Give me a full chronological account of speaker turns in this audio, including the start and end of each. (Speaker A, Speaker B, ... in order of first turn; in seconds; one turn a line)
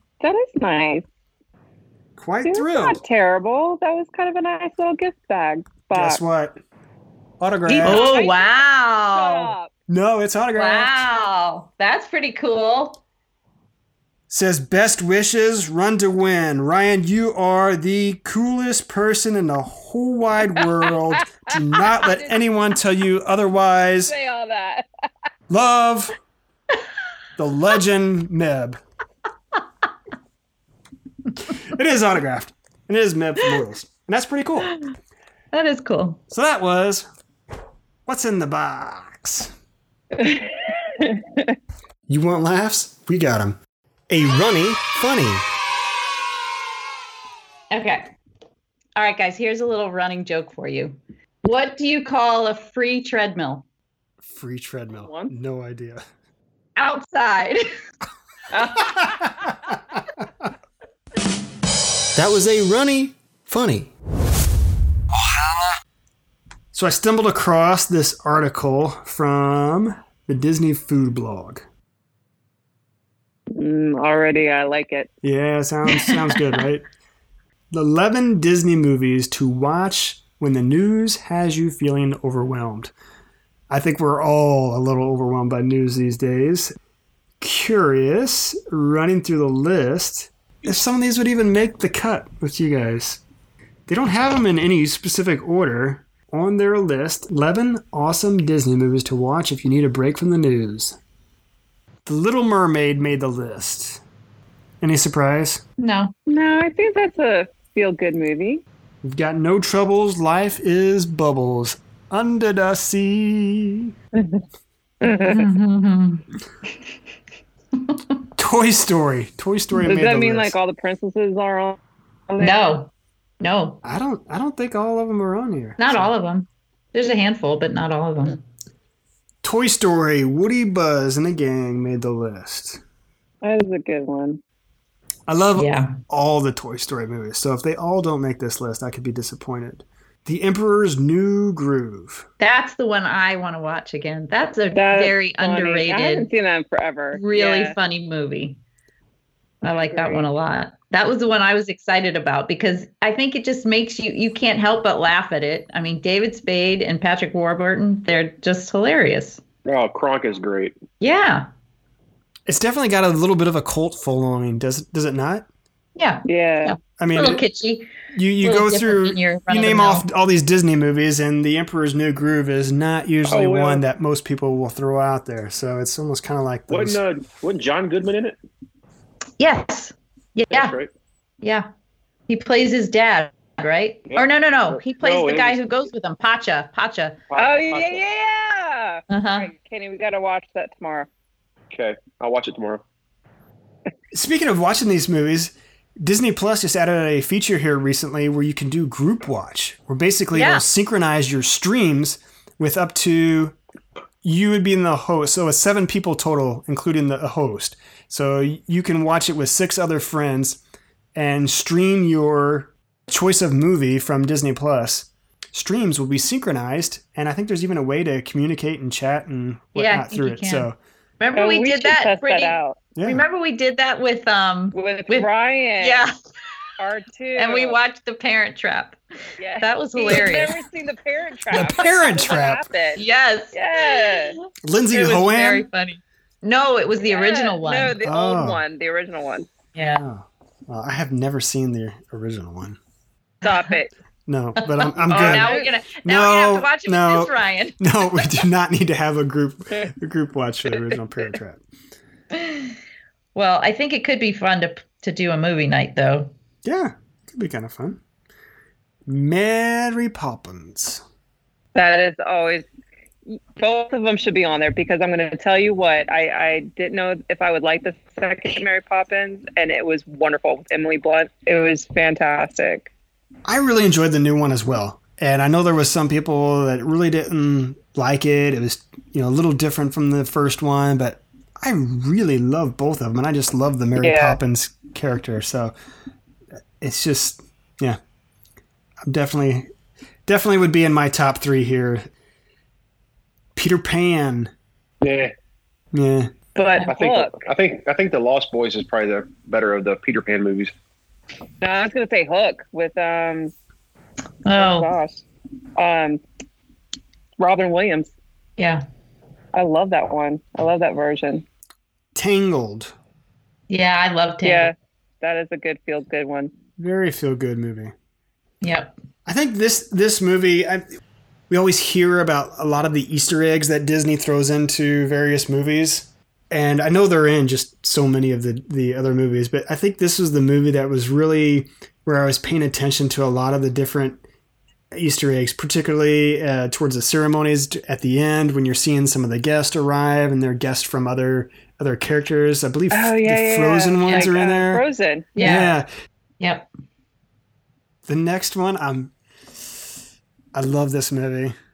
Speaker A: 0.2-1.1
Speaker B: 2.2-3.0
Speaker A: 2.5-6.2
Speaker B: 5.9-6.6
Speaker B: 7.4-8.2
Speaker C: 7.7-9.5
Speaker A: 7.8-8.5
Speaker A: 9.1-9.7
Speaker B: 9.9-11.1
Speaker C: 10.6-13.0
Speaker B: 14.3-24.1
Speaker A: 21.5-22.4
Speaker A: 24.1-24.9
Speaker B: 25.5-26.1
Speaker B: 27.4-28.8
Speaker B: 31.5-34.8
Speaker C: 35.5-36.2
Speaker B: 36.3-37.1
Speaker B: 38.1-39.5
Speaker A: 40.1-41.6
Speaker B: 42.1-43.6
Speaker B: 44.1-45.5
Speaker C: 47.7-48.1
Speaker C: 49.0-53.6
Speaker B: 54.2-56.0
Speaker A: 55.1-55.3
Speaker C: 56.8-57.7
Speaker A: 58.5-59.3
Speaker B: 58.8-60.2
Speaker B: 62.1-63.9
Speaker B: 66.7-71.7
Speaker A: 73.5-75.1
Speaker B: 75.2-76.8
Speaker B: 77.7-82.9
Speaker B: 83.7-86.7
Speaker B: 87.4-93.2
Speaker B: 93.9-101.0
Speaker B: 102.1-104.0
Speaker B: 104.8-105.6
Speaker C: 105.8-106.1
Speaker A: 106.3-108.6
Speaker B: 109.0-113.9
Speaker A: 114.2-114.4
Speaker A: 115.0-115.5
Speaker C: 115.3-116.2
Speaker B: 118.4-120.5
Speaker A: 119.8-121.8
Speaker A: 122.3-122.6
Speaker C: 122.4-123.8
Speaker B: 123.8-126.1
Speaker C: 125.8-128.4
Speaker B: 129.4-132.8
Speaker A: 133.4-134.4
Speaker B: 135.3-142.3
Speaker C: 135.6-136.0
Speaker C: 142.4-146.3
Speaker A: 144.7-147.8
Speaker C: 147.1-148.6
Speaker C: 149.6-159.4
Speaker A: 149.9-150.2
Speaker D: 159.7-160.8
Speaker C: 161.0-161.5
Speaker B: 162.5-165.5
Speaker C: 166.0-167.9
Speaker A: 166.3-166.8
Speaker B: 167.0-167.4
Speaker B: 168.1-177.0
Speaker C: 168.4-170.1
Speaker D: 173.3-173.8
Speaker D: 176.7-178.4
Speaker C: 179.4-180.8
Speaker D: 180.5-180.9
Speaker C: 181.4-181.7
Speaker C: 182.3-187.2
Speaker D: 184.1-185.6
Speaker D: 187.3-188.0
Speaker A: 187.3-191.1
Speaker C: 189.1-189.5
Speaker D: 191.7-192.8
Speaker B: 194.1-203.6
Speaker C: 200.3-200.6
Speaker B: 204.2-210.6
Speaker B: 211.2-220.8
Speaker C: 219.8-220.7
Speaker C: 221.2-225.3
Speaker A: 221.3-222.8
Speaker B: 223.0-223.2
Speaker A: 224.7-226.1
Speaker C: 225.8-226.1
Speaker A: 226.8-227.8
Speaker C: 227.4-229.0
Speaker A: 229.4-234.4
Speaker C: 229.6-230.6
Speaker B: 231.5-232.6
Speaker C: 233.0-234.3
Speaker B: 234.6-235.7
Speaker C: 234.9-238.0
Speaker A: 237.1-239.5
Speaker B: 238.0-238.6
Speaker C: 239.8-240.1
Speaker B: 240.0-242.8
Speaker C: 243.4-243.7
Speaker A: 243.4-243.9
Speaker B: 244.3-251.6
Speaker C: 244.6-248.3
Speaker A: 245.1-245.7
Speaker C: 252.3-252.8
Speaker C: 253.3-256.3
Speaker B: 256.6-258.0
Speaker B: 259.1-261.0
Speaker A: 261.8-262.7
Speaker A: 263.3-272.9
Speaker B: 273.5-285.7
Speaker A: 284.0-284.4
Speaker B: 286.8-288.0
Speaker B: 289.1-289.7
Speaker B: 290.3-292.1
Speaker B: 293.6-294.5
Speaker D: 295.0-295.3
Speaker B: 295.9-296.3
Speaker A: 296.6-297.4
Speaker D: 296.9-300.7
Speaker A: 301.6-303.5
Speaker C: 304.4-304.9
Speaker A: 304.6-305.2
Speaker A: 305.8-306.2
Speaker A: 307.4-308.1
Speaker C: 308.6-308.8
Speaker A: 309.5-311.4
Speaker B: 312.1-312.9
Speaker C: 313.7-314.7
Speaker A: 314.4-316.5
Speaker B: 316.8-317.9
Speaker C: 318.6-318.9
Speaker B: 319.3-320.8
Speaker B: 321.5-334.2
Speaker B: 334.9-344.8
Speaker A: 342.9-345.6
Speaker C: 345.4-345.8
Speaker B: 345.4-345.9
Speaker C: 346.4-346.7
Speaker B: 348.1-349.1
Speaker B: 350.6-351.6